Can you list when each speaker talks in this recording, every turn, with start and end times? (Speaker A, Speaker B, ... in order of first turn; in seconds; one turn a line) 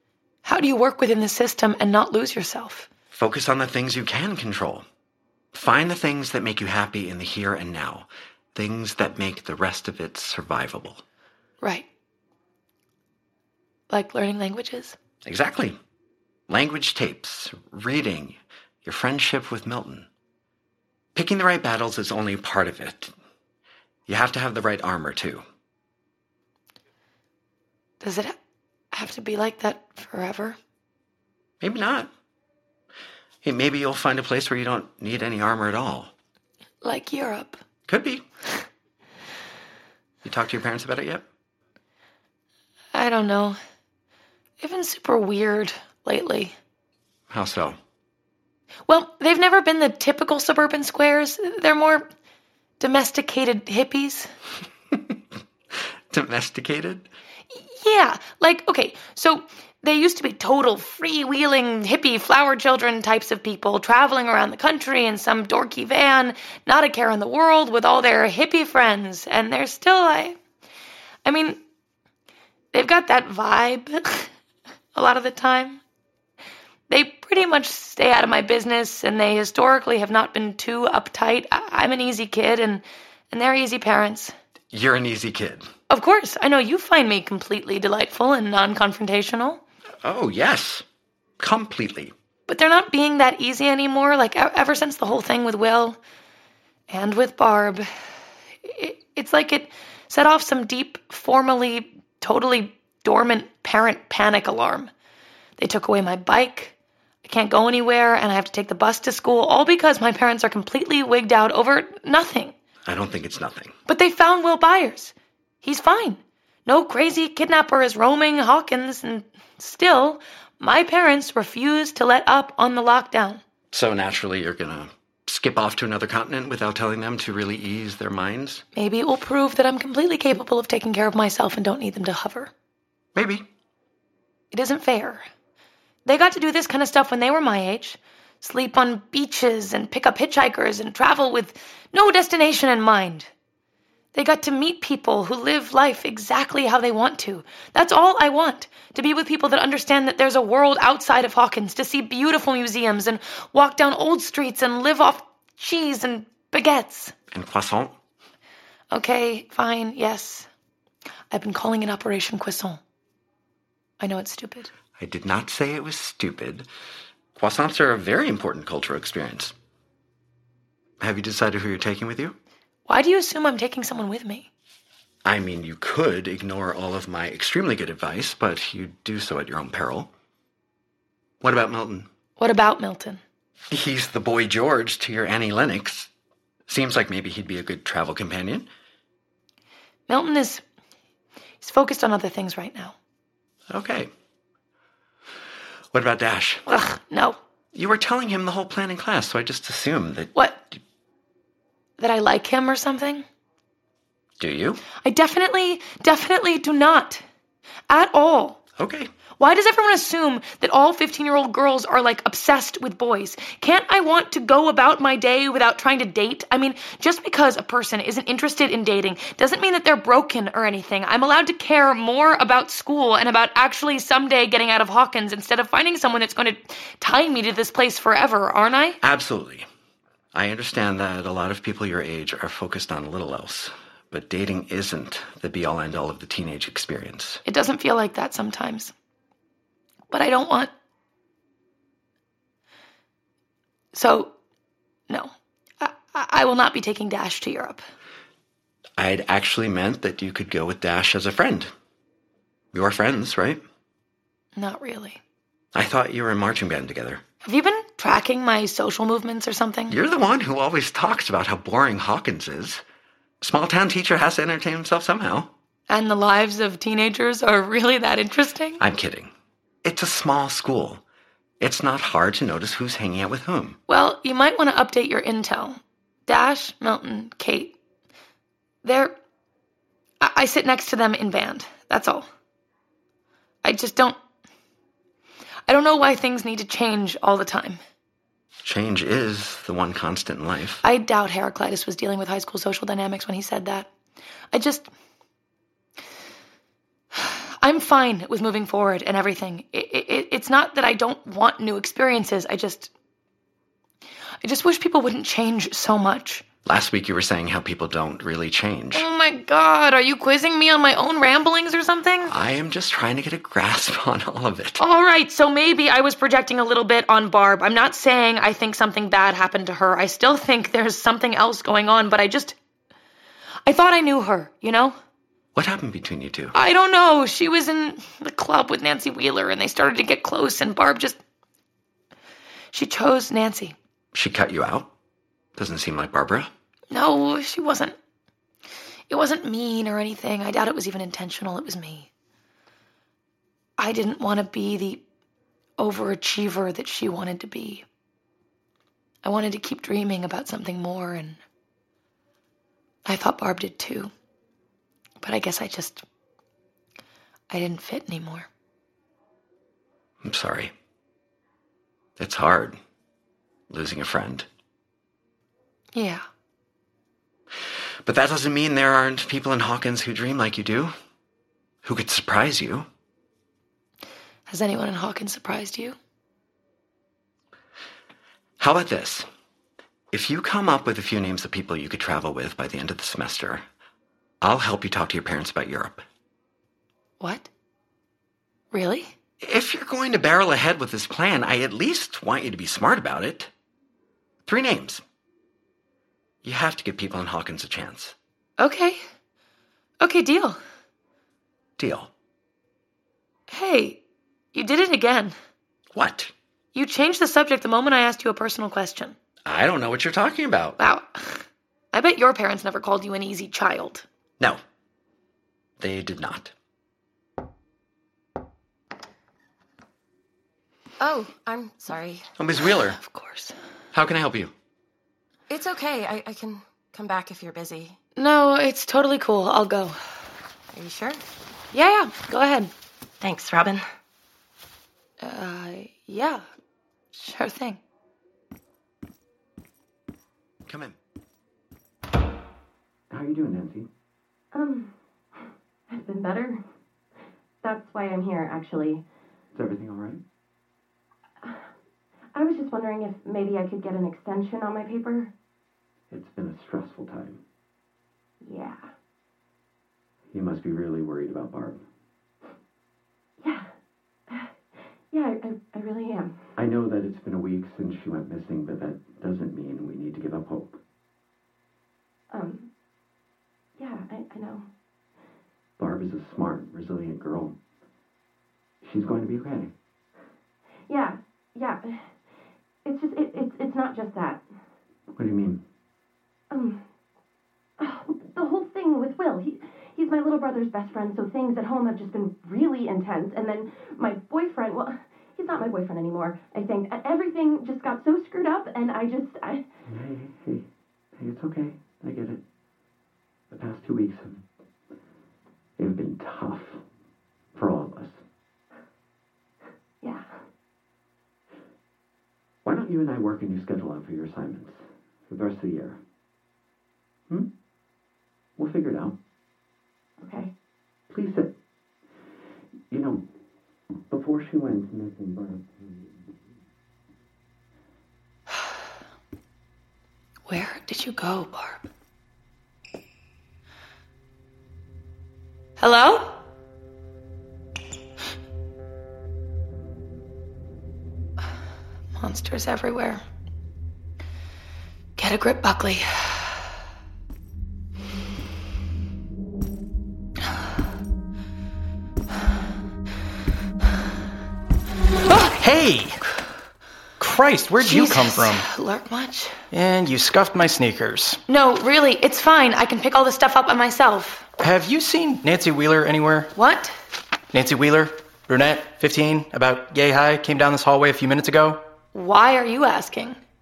Speaker A: 0.4-2.9
Speaker B: 3.1-4.8
Speaker B: 5.5-11.0
Speaker A: 11.6-11.9
Speaker A: 13.9-14.9
Speaker B: 15.2-15.8
Speaker B: 16.5-20.1
Speaker B: 21.1-23.1
Speaker B: 24.1-25.4
Speaker A: 28.0-28.4
Speaker A: 28.9-30.6
Speaker B: 31.6-32.1
Speaker B: 33.4-36.1
Speaker A: 36.8-37.6
Speaker B: 37.9-38.2
Speaker B: 40.2-41.2
Speaker A: 42.9-43.6
Speaker A: 44.6-46.5
Speaker B: 47.3-47.8
Speaker A: 48.9-52.1
Speaker A: 52.8-54.3
Speaker B: 56.1-57.1
Speaker A: 57.5-70.4
Speaker A: 71.2-71.6
Speaker A: 72.7-74.3
Speaker A: 74.9-75.8
Speaker A: 76.9-84.3
Speaker B: 84.7-85.7
Speaker A: 85.9-89.6
Speaker B: 90.0-90.8
Speaker B: 91.4-92.1
Speaker A: 92.5-96.0
Speaker A: 96.9-97.9
Speaker A: 98.6-104.9
Speaker A: 105.6-112.5
Speaker B: 112.8-113.7
Speaker A: 113.9-123.4
Speaker B: 123.7-128.6
Speaker A: 128.7-132.5
Speaker B: 133.1-133.4
Speaker A: 134.5-135.2
Speaker A: 136.0-143.3
Speaker A: 144.1-157.1
Speaker B: 157.3-157.9
Speaker A: 158.9-160.5
Speaker A: 161.3-162.8
Speaker A: 164.0-164.7
Speaker B: 165.0-166.7
Speaker B: 167.3-169.5
Speaker B: 171.0-172.3
Speaker A: 172.8-174.5
Speaker B: 175.2-180.1
Speaker B: 181.4-182.1
Speaker A: 182.4-183.2
Speaker B: 183.7-186.1
Speaker B: 186.7-188.7
Speaker A: 190.1-190.6
Speaker A: 191.6-192.9
Speaker B: 193.7-194.1
Speaker B: 195.9-196.7
Speaker A: 196.7-197.4
Speaker B: 197.7-200.3
Speaker A: 200.3-200.7
Speaker A: 202.0-203.2
Speaker B: 204.4-204.8
Speaker A: 205.0-207.2
Speaker A: 207.9-208.6
Speaker B: 208.8-209.1
Speaker A: 209.4-229.0
Speaker B: 229.0-229.7
Speaker B: 230.3-237.4
Speaker A: 237.4-238.9
Speaker A: 240.1-240.7
Speaker A: 243.9-244.3
Speaker A: 245.1-247.8
Speaker B: 249.0-251.7
Speaker B: 252.7-253.6
Speaker A: 254.6-255.2
Speaker B: 255.7-257.2
Speaker A: 257.4-260.0
Speaker B: 259.9-262.8
Speaker B: 263.4-265.5
Speaker A: 265.9-268.8
Speaker B: 268.8-269.3
Speaker B: 269.8-271.0
Speaker B: 271.6-273.8
Speaker A: 273.9-277.8
Speaker A: 278.8-279.1
Speaker A: 280.2-282.3
Speaker A: 283.6-284.2
Speaker A: 285.7-287.8
Speaker B: 288.6-290.8
Speaker A: 290.8-293.9
Speaker A: 294.5-294.9
Speaker A: 297.1-302.9
Speaker A: 304.4-306.4
Speaker B: 306.6-309.1
Speaker A: 308.9-312.3
Speaker B: 312.2-314.8
Speaker A: 314.8-322.6
Speaker A: 323.6-324.9
Speaker B: 325.5-326.5
Speaker A: 326.5-331.2
Speaker A: 332.7-333.8
Speaker B: 334.1-334.9
Speaker B: 335.6-336.5
Speaker A: 336.9-337.9
Speaker A: 339.1-342.1
Speaker A: 343.8-345.0
Speaker A: 345.8-347.9
Speaker A: 349.2-351.4
Speaker A: 353.1-354.1
Speaker A: 355.2-356.0
Speaker A: 357.5-358.5
Speaker B: 360.2-360.7
Speaker B: 362.2-362.8
Speaker B: 363.7-364.5
Speaker A: 365.9-366.2
Speaker B: 368.1-370.9
Speaker B: 371.8-372.9
Speaker A: 374.5-376.0
Speaker B: 378.6-379.3
Speaker B: 380.1-383.6
Speaker B: 384.4-386.0
Speaker A: 387.2-387.5
Speaker A: 388.7-389.1
Speaker B: 389.4-393.5
Speaker B: 394.4-395.0
Speaker B: 396.4-398.1
Speaker A: 398.6-399.0
Speaker A: 400.0-400.6
Speaker B: 401.8-402.1
Speaker A: 403.5-404.0
Speaker A: 404.5-405.3
Speaker B: 405.9-406.3
Speaker A: 406.7-409.1
Speaker B: 409.4-410.8
Speaker A: 410.8-414.1
Speaker B: 415.8-416.5
Speaker C: 421.0-422.2
Speaker B: 422.4-423.0
Speaker A: 422.9-423.5
Speaker B: 423.9-424.5
Speaker C: 425.5-427.9
Speaker A: 428.1-429.9
Speaker C: 430.7-431.2
Speaker A: 431.7-432.7
Speaker C: 433.2-433.8
Speaker A: 435.2-436.4
Speaker A: 437.1-437.8
Speaker B: 440.7-440.9
Speaker B: 443.1-443.9
Speaker D: 444.5-444.9
Speaker D: 445.9-446.6
Speaker D: 447.6-449.0
Speaker B: 449.5-450.2
Speaker D: 452.3-455.3
Speaker B: 456.1-457.4
Speaker D: 458.4-458.8
Speaker B: 460.3-461.8
Speaker D: 463.4-463.6
Speaker D: 465.1-466.4
Speaker B: 466.6-470.8
Speaker D: 472.3-472.7
Speaker D: 473.8-474.7
Speaker B: 475.8-477.6
Speaker B: 478.8-479.7
Speaker D: 480.9-482.1
Speaker D: 482.8-484.4
Speaker B: 485.1-485.6
Speaker D: 486.5-486.8
Speaker D: 487.8-499.6
Speaker B: 499.9-500.7
Speaker B: 501.2-502.4
Speaker B: 503.5-504.4
Speaker B: 505.8-506.8
Speaker B: 507.5-508.2
Speaker D: 510.0-510.3
Speaker B: 512.6-516.0
Speaker B: 518.6-519.1
Speaker D: 520.2-520.5
Speaker B: 521.1-521.5
Speaker B: 522.9-523.2
Speaker B: 524.1-526.1
Speaker A: 530.5-531.9
Speaker A: 535.8-536.4
Speaker A: 542.1-543.2
Speaker A: 545.2-546.5
Speaker E: 555.5-556.2
Speaker E: 557.2-558.7
Speaker A: 557.8-559.5
Speaker E: 559.7-561.4
Speaker A: 561.5-564.5
Speaker E: 564.6-566.5
Speaker A: 566.5-566.9
Speaker E: 567.5-571.8
Speaker A: 572.1-573.4